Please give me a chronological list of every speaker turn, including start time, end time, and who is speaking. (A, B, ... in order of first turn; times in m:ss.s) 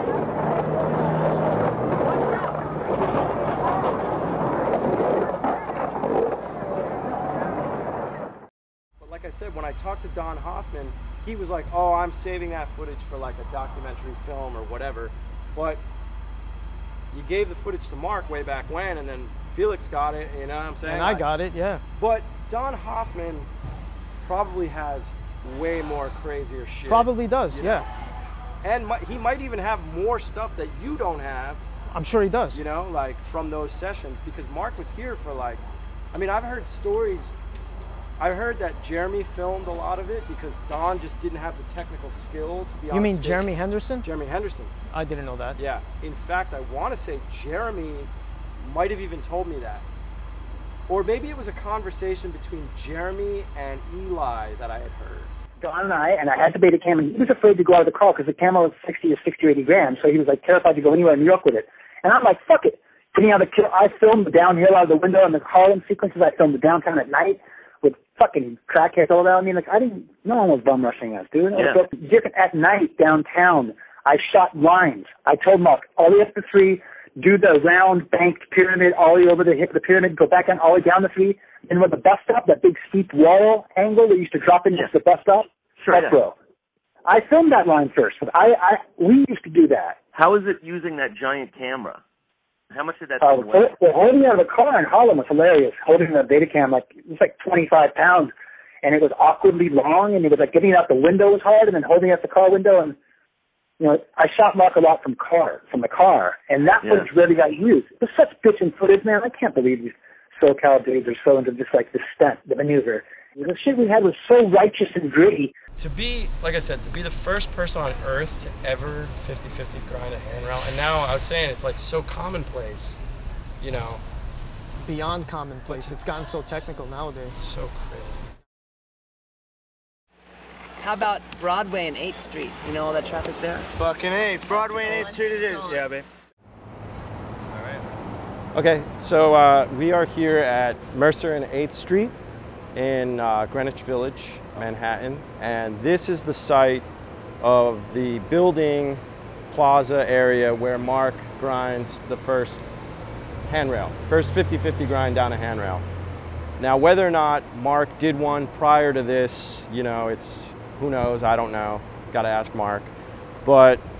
0:09.0-0:15.8 A
0:17.1-0:21.3 A
0:20.9-0:21.8 B
0:22.0-0:23.5 A
0:24.2-0:27.9 A
0:26.9-0:27.9 B
0:28.6-0:31.6 A
0:31.9-0:32.6 B
0:32.5-0:37.4 A
0:38.2-0:44.7 A
0:42.9-0:44.1 B
0:44.9-0:45.6 B
0:45.6-0:49.9 A
0:50.9-0:55.3 A
0:55.6-1:26.4 C
1:25.9-1:26.2 D
1:27.1-1:30.1 C
1:30.1-1:32.0 D
1:32.7-1:33.8 D
1:33.2-1:38.3 C
1:38.8-1:43.0 C
1:43.8-1:55.5 C
1:55.8-2:03.0 A
2:03.6-2:04.0 A
2:04.8-2:07.4 B
2:05.7-2:06.0 A
2:07.3-2:08.3 A
2:10.8-2:13.7 E
2:13.8-2:16.0 F
2:14.8-2:15.7 E
2:18.5-2:22.2 A
2:22.8-2:26.9 A
2:27.4-2:32.7 A
2:33.5-2:35.8 A
2:36.6-2:42.9 A
2:43.4-2:43.8 A